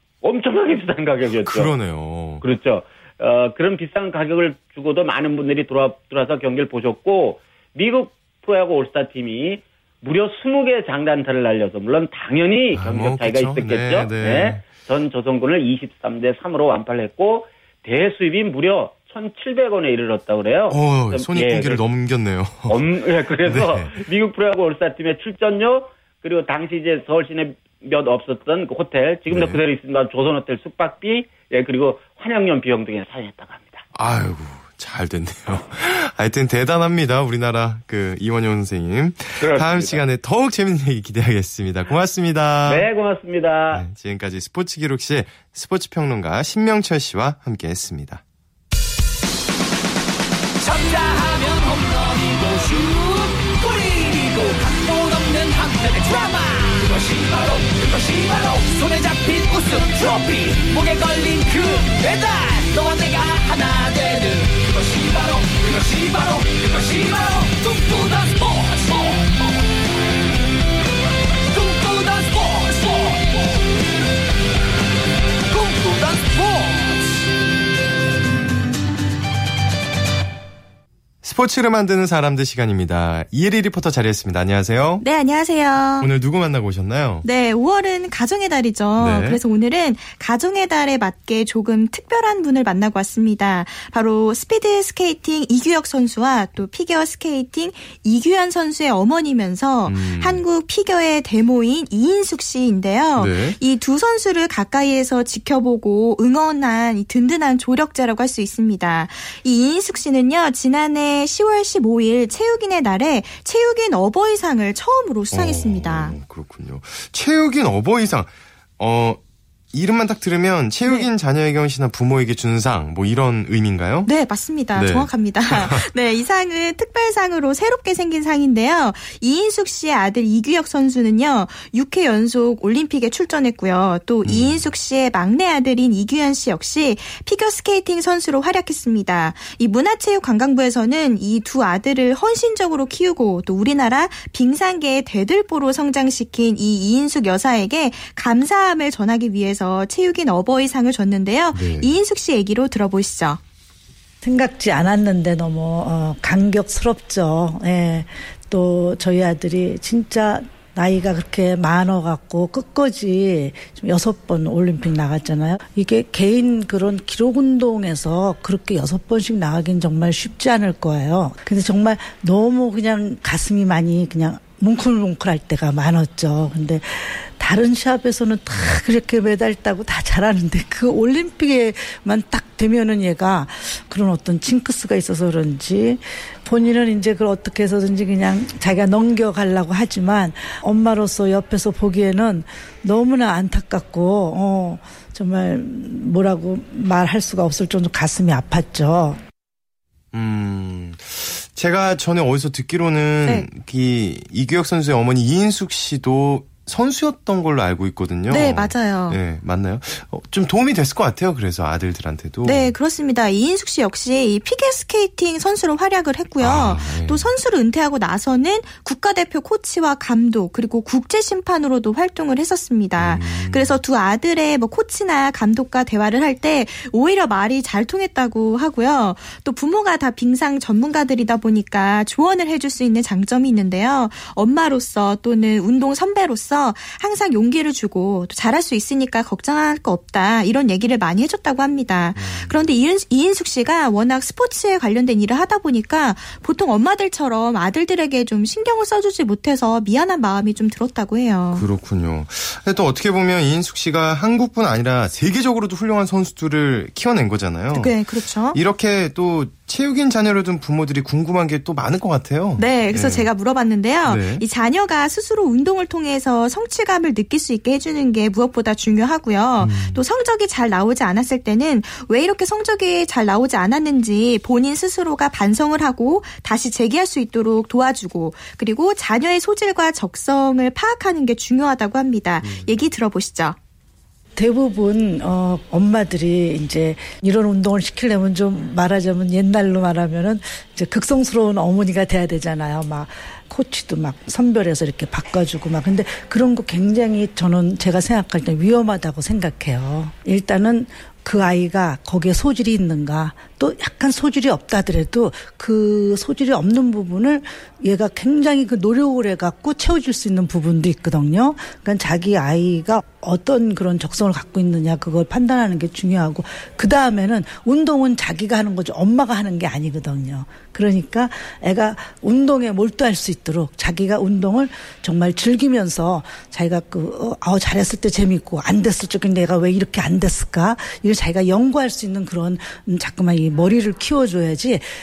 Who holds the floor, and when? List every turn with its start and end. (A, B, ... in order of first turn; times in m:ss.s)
0:00.2-0:01.7 A
0:01.4-0:02.4 B
0:02.4-0:21.8 A
0:12.7-0:14.6 B
0:20.7-0:22.8 B
0:22.7-0:33.8 A
0:23.4-0:24.0 B
0:29.3-0:29.6 B
0:33.9-0:42.9 B
0:39.4-0:40.0 A
0:42.6-0:43.8 A
0:43.7-0:48.2 B
0:50.6-1:09.6 C
1:11.5-1:13.6 C
1:15.5-1:17.1 C
1:21.2-1:25.0 B
1:25.0-1:26.1 D
1:26.0-1:27.2 B
1:27.2-1:56.2 D
1:29.0-1:29.4 B
1:39.8-1:40.4 B
1:43.2-1:43.6 B
1:55.3-1:59.2 B
1:59.7-2:04.1 B
2:04.0-2:33.4 D
2:04.7-2:05.8 B
2:14.2-2:14.7 B
2:31.5-2:31.9 B
2:34.2-3:19.2 E
3:20.1-3:32.7 B
3:28.3-3:29.2 D
3:32.4-4:11.6 D
3:36.4-3:37.3 B
3:43.0-3:43.8 B
4:02.1-4:02.7 B
4:11.5-4:23.3 B
4:17.7-4:18.6 D
4:22.6-4:43.6 D
4:24.0-4:24.4 B
4:29.6-4:30.0 B
4:42.4-4:42.8 B
4:44.4-5:34.8 E